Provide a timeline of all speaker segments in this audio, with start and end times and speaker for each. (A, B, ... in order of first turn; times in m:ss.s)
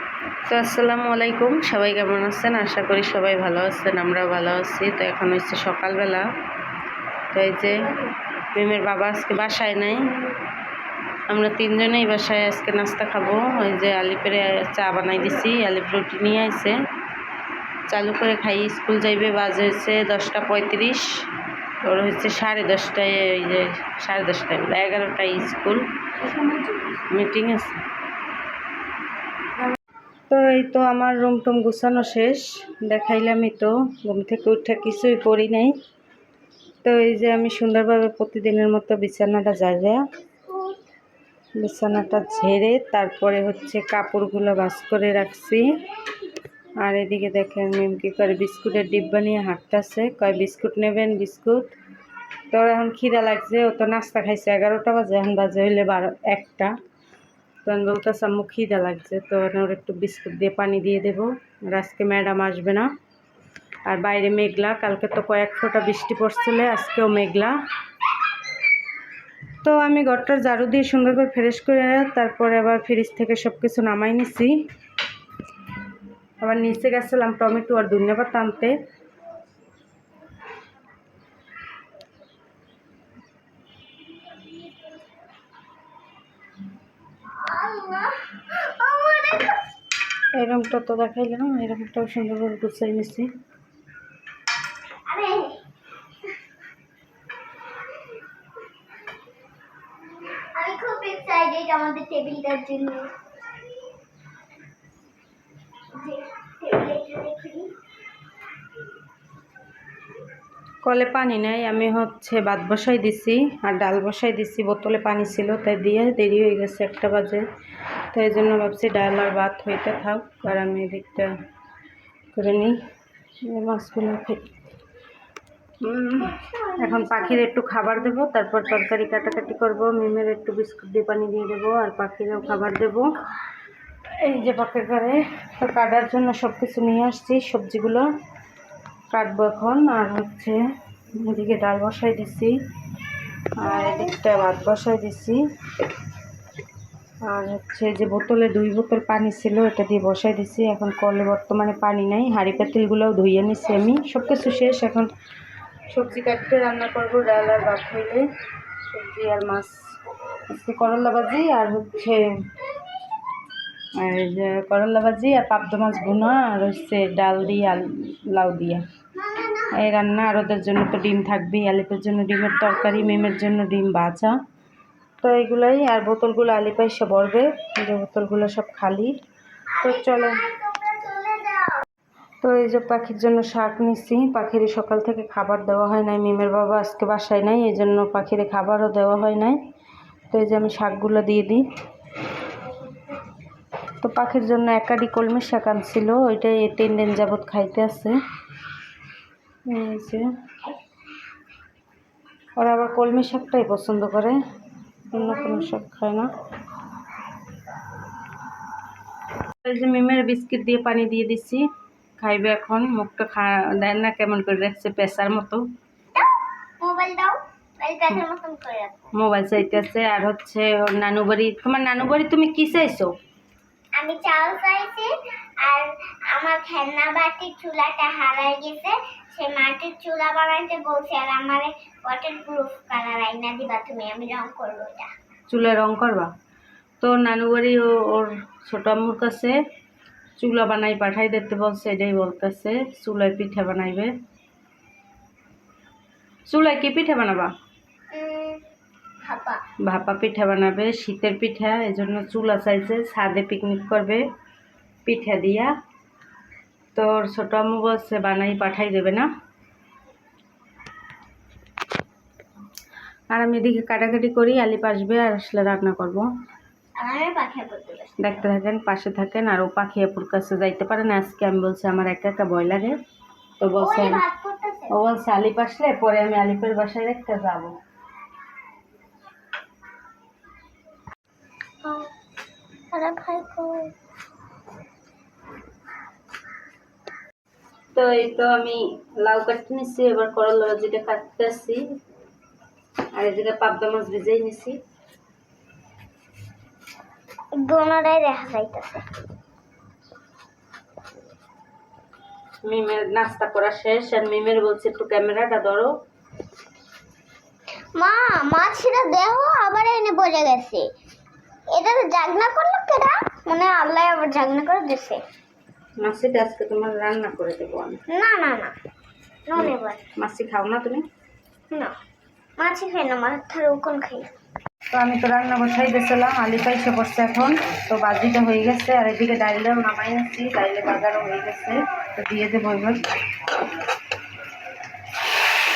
0:00.5-0:06.2 A
0:07.3-0:07.8 A
0:08.5-0:10.1 A
0:11.3-0:16.8 A
0:17.9-0:21.1 A
0:21.8-0:27.8 A
0:30.3-0:35.7 A
0:36.8-0:40.0 A
0:41.6-0:45.7 A
0:46.8-0:51.7 A
0:52.5-0:56.7 A
0:57.6-1:02.9 A
1:03.9-1:07.5 A
1:09.6-1:14.5 A
1:16.4-1:18.8 A
1:27.4-1:29.6 B
1:30.4-1:33.3 A
1:35.1-1:35.6 B
1:40.5-1:43.1 B
1:46.0-1:47.7 B
1:50.8-1:57.4 A
1:58.1-2:01.3 A
2:02.3-2:02.8 A
2:03.5-2:04.4 A
2:05.8-2:13.1 A
2:06.4-2:06.8 B
2:14.2-2:18.0 A
2:19.1-2:20.6 A
2:21.2-2:22.5 A
2:23.6-2:25.4 A
2:27.3-2:35.1 A
2:35.9-2:38.2 A
2:38.8-2:39.8 A
2:40.5-2:42.2 A
2:44.0-2:48.8 A
2:49.3-2:49.6 B
2:49.7-2:54.3 A
2:55.2-2:59.1 A
2:59.7-3:01.8 B
2:59.8-3:00.4 A
3:02.4-3:09.6 A
3:10.3-3:11.6 A
3:14.0-3:18.1 A
3:19.7-3:20.3 A
3:22.6-3:24.4 A
3:25.1-3:26.3 A
3:29.6-3:31.6 A
3:32.2-3:35.6 A
3:36.1-3:39.0 B
3:39.2-3:43.1 A
3:44.0-3:45.1 B
3:45.6-3:55.1 B
3:55.5-3:56.3 A
3:57.0-3:59.6 A
4:00.4-4:04.1 A
4:06.5-4:07.5 A
4:08.1-4:08.6 B
4:09.2-4:09.6 B
4:09.8-4:14.2 A
4:15.0-4:15.7 A
4:16.9-4:19.3 A
4:23.3-4:26.3 A
4:27.0-4:28.4 B
4:28.2-4:32.9 A
4:33.6-4:34.2 A
4:33.8-4:34.9 B
4:34.9-4:37.7 A
4:42.9-4:43.9 B
4:47.9-4:51.8 A
4:53.2-4:54.8 A
4:57.6-4:59.0 B
5:02.6-5:05.9 A
5:08.0-5:10.9 B
5:11.7-5:15.2 B
5:16.0-5:18.0 A
5:18.1-5:18.7 B
5:19.5-5:20.0 B
5:19.6-5:21.0 A
5:22.6-5:24.3 B
5:24.9-5:33.0 A